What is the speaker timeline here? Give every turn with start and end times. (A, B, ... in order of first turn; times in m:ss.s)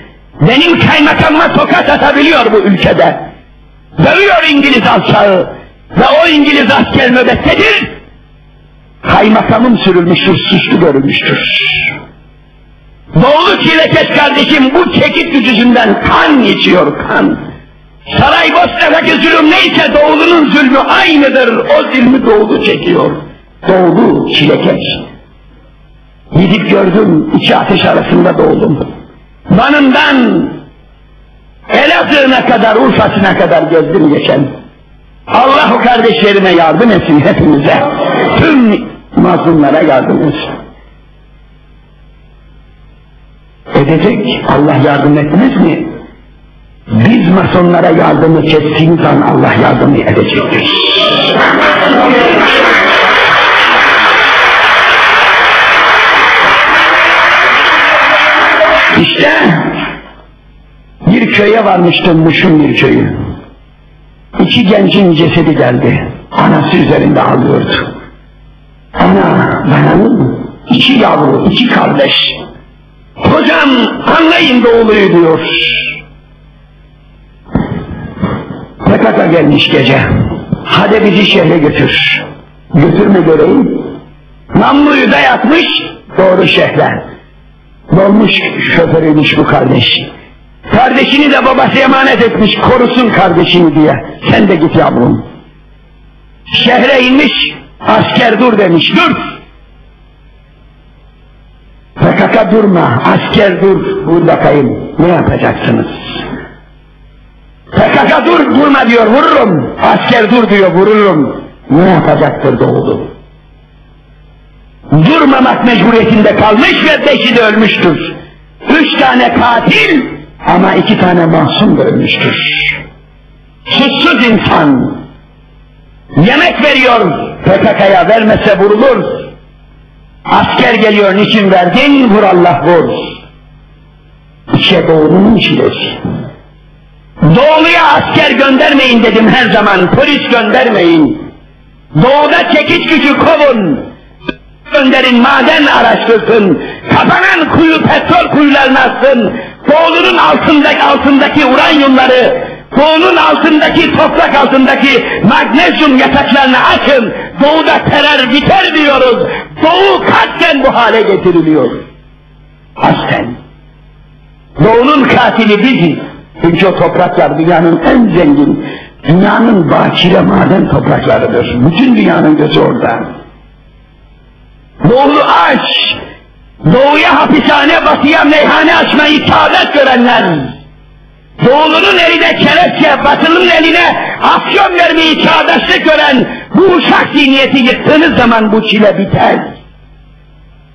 0:00.4-0:03.3 A
0:04.0-0:07.9 A
0:09.0-0:11.9 A
0:13.1-0:17.4 A
0:18.1-0:25.0 A
0:26.3-0:28.8 A
0:29.5-0:30.6 A
0:31.7-0:34.5 A
0:35.3-0:40.5 A
0:43.7-0:46.0 A
0:46.9-0:51.2 A
0:58.9-0:59.8 A
1:01.0-1:03.1 A
1:04.4-1:07.9 A
1:09.0-1:12.4 A
1:13.2-1:16.0 A
1:18.8-1:23.9 A
1:24.5-1:27.0 A
1:27.9-1:30.1 A
1:30.7-1:35.2 A
1:36.5-1:39.2 A
1:42.0-1:46.2 A
1:47.7-1:53.1 A
1:54.9-2:02.8 A
2:03.7-2:05.0 A
2:06.1-2:09.3 A
2:10.3-2:13.2 A
2:14.5-2:16.0 A
2:17.2-2:21.2 A
2:21.9-2:23.9 A
2:24.7-2:41.8 A
2:42.8-2:43.4 A
2:44.6-2:53.1 A
2:54.8-2:56.0 A
2:56.6-3:00.5 A
3:01.4-3:09.6 A